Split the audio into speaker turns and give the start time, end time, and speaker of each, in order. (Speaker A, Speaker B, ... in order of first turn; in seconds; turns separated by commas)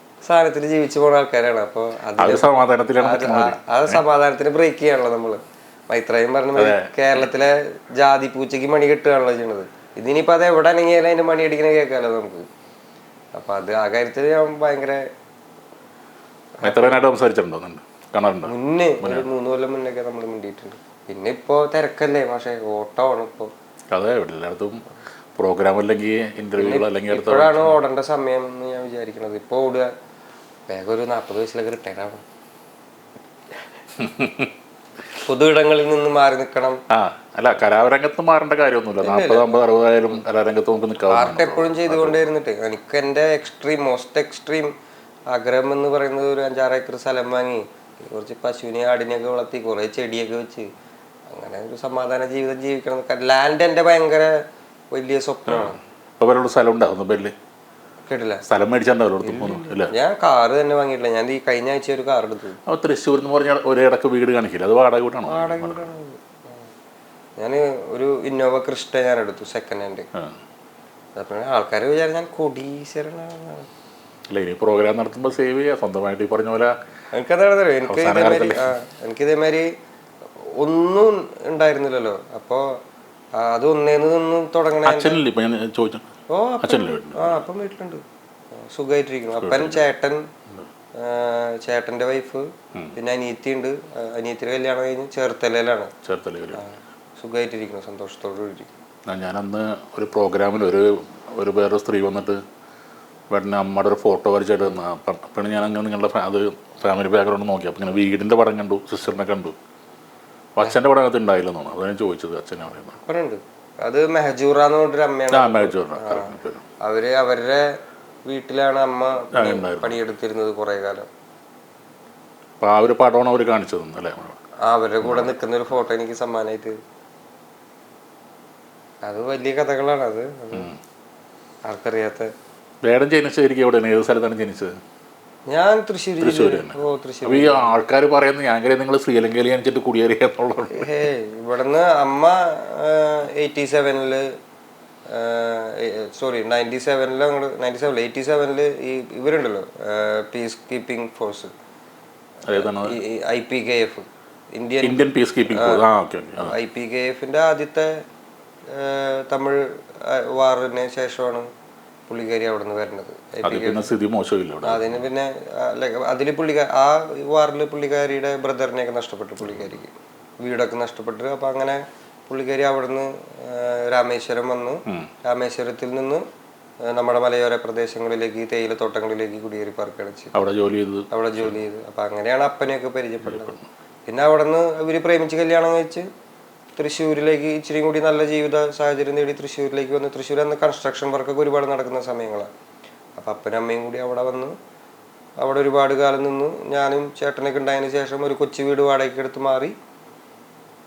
Speaker A: 0.2-12.5, Speaker B: 2.2-4.0, Speaker B: 6.5-6.9, Speaker A: 13.3-15.0, Speaker A: 16.6-17.0, Speaker B: 16.6-19.3, Speaker A: 18.4-23.5, Speaker B: 23.9-24.8, Speaker B: 25.4-27.8, Speaker A: 26.6-29.9, Speaker A: 30.7-32.2, Speaker B: 34.0-34.5, Speaker A: 35.2-36.8, Speaker B: 36.9-42.3, Speaker A: 39.0-39.6, Speaker A: 41.1-44.7, Speaker A: 45.3-50.7, Speaker A: 51.3-54.3, Speaker A: 54.9-55.8, Speaker B: 55.5-57.3, Speaker A: 58.1-58.4, Speaker B: 58.5-59.9, Speaker A: 59.2-62.6, Speaker B: 62.7-65.9, Speaker A: 65.3-66.7, Speaker A: 67.4-70.0, Speaker A: 71.2-73.7, Speaker B: 74.3-76.7, Speaker A: 77.1-79.7, Speaker B: 77.9-78.7, Speaker A: 80.6-82.7, Speaker A: 83.4-85.2, Speaker B: 84.8-86.0, Speaker A: 86.3-88.0, Speaker B: 86.6-87.5, Speaker A: 88.5-90.2, Speaker B: 89.4-89.8, Speaker A: 91.0-95.9, Speaker B: 96.0-96.6, Speaker A: 96.5-98.7, Speaker B: 99.1-102.4, Speaker B: 103.3-109.5, Speaker B: 110.5-113.0, Speaker A: 113.0-117.7, Speaker B: 115.3-116.6, Speaker A: 118.3-121.1, Speaker B: 119.3-120.0, Speaker B: 122.6-124.4, Speaker A: 124.7-126.8, Speaker B: 125.0-125.3, Speaker A: 129.1-130.7, Speaker B: 130.5-130.8, Speaker A: 131.7-132.3, Speaker B: 132.8-134.7, Speaker A: 135.5-137.7, Speaker B: 136.2-140.9, Speaker A: 140.7-144.2, Speaker A: 145.1-151.5, Speaker B: 152.5-153.0, Speaker A: 152.5-155.8, Speaker B: 154.8-156.6, Speaker A: 156.4-157.9, Speaker A: 158.7-161.5, Speaker A: 162.1-163.9, Speaker B: 163.4-165.0, Speaker A: 164.6-176.2, Speaker B: 169.4-169.8, Speaker A: 176.9-180.3, Speaker B: 180.3-181.6, Speaker A: 181.1-183.5, Speaker B: 183.2-183.7, Speaker A: 184.1-186.1, Speaker A: 186.8-192.5, Speaker A: 193.2-194.5, Speaker A: 195.4-199.7